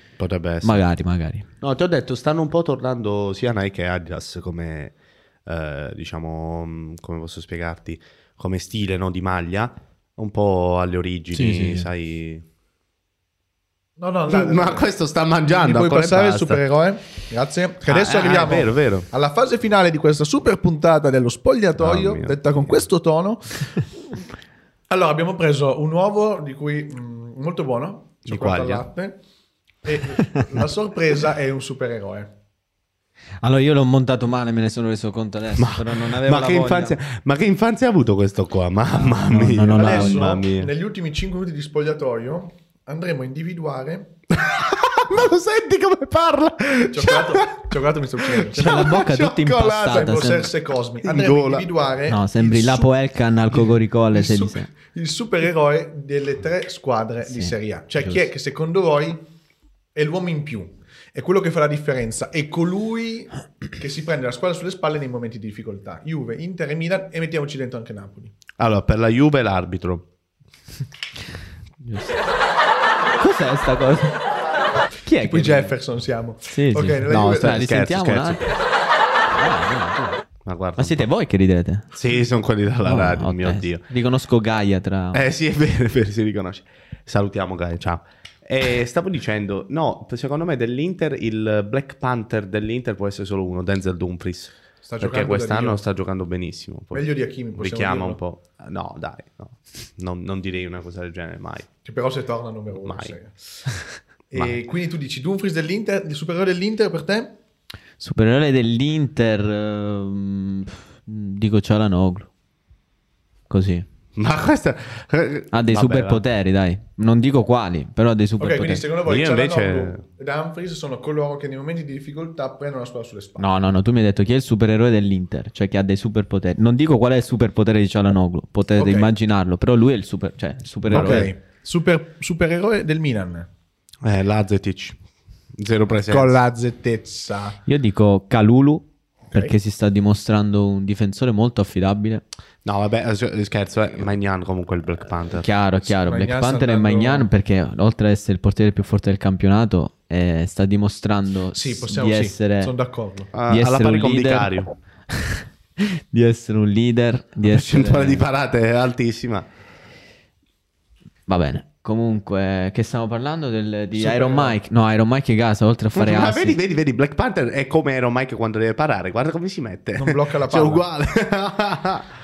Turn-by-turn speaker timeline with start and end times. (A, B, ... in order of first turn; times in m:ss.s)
0:00.2-0:00.8 A
0:00.6-0:01.5 B
0:01.6-0:04.9 A
0:05.4-0:12.4 A
0:11.3-0:11.9 B
0:14.0-0:14.9 C
0:14.3-0:16.6 A
0:15.5-0:23.7 C
0:17.8-0:19.1 A
0:21.8-0:22.8 A
0:24.9-0:29.2 C
0:28.3-0:28.8 A
0:29.8-0:32.3 C
0:33.4-0:37.0 B
0:35.6-0:40.7 A
0:39.3-0:40.4 B
0:39.7-0:44.1 C
0:44.3-0:50.1 A
0:46.9-0:48.6 C
0:48.5-0:50.5 B
0:49.8-0:52.9 C
0:51.0-0:51.7 A
0:52.1-0:54.7 B
0:53.5-0:59.2 C
0:57.3-0:58.2 B
0:59.9-1:08.3 C
1:08.6-1:10.0 A
1:11.8-1:12.2 B
1:13.2-1:14.2 B
1:15.0-1:15.7 B
1:15.2-1:17.6 C
1:16.5-1:18.4 B
1:17.1-1:18.4 A
1:19.3-1:20.2 B
1:20.4-1:21.1 A
1:20.8-1:21.9 B
1:21.9-1:23.8 A
1:22.8-1:25.2 B
1:25.1-1:41.7 A
1:34.8-1:35.8 C
1:36.9-1:38.2 C
1:41.8-1:43.6 C
1:42.8-1:43.1 A
1:44.3-1:47.4 C
1:48.0-1:52.3 B
1:53.5-1:53.9 B
1:54.1-1:56.2 A
1:55.5-1:58.8 B
1:58.4-2:03.5 C
1:59.0-2:00.0 A
2:03.4-2:11.3 B
2:08.8-2:09.1 C
2:10.9-2:13.5 C
2:14.0-2:15.0 A
2:15.5-2:16.4 A
2:16.1-2:17.6 C
2:17.6-2:22.2 B
2:22.6-2:25.4 A
2:25.3-2:32.7 B
2:25.9-2:27.3 C
2:31.5-2:33.3 C
2:33.3-2:34.7 A
2:33.5-2:34.5 B
2:35.1-2:38.2 B
2:37.4-2:39.5 A
2:41.3-2:46.6 B
2:43.9-2:44.6 C
2:45.9-2:52.1 A
2:50.0-2:50.8 C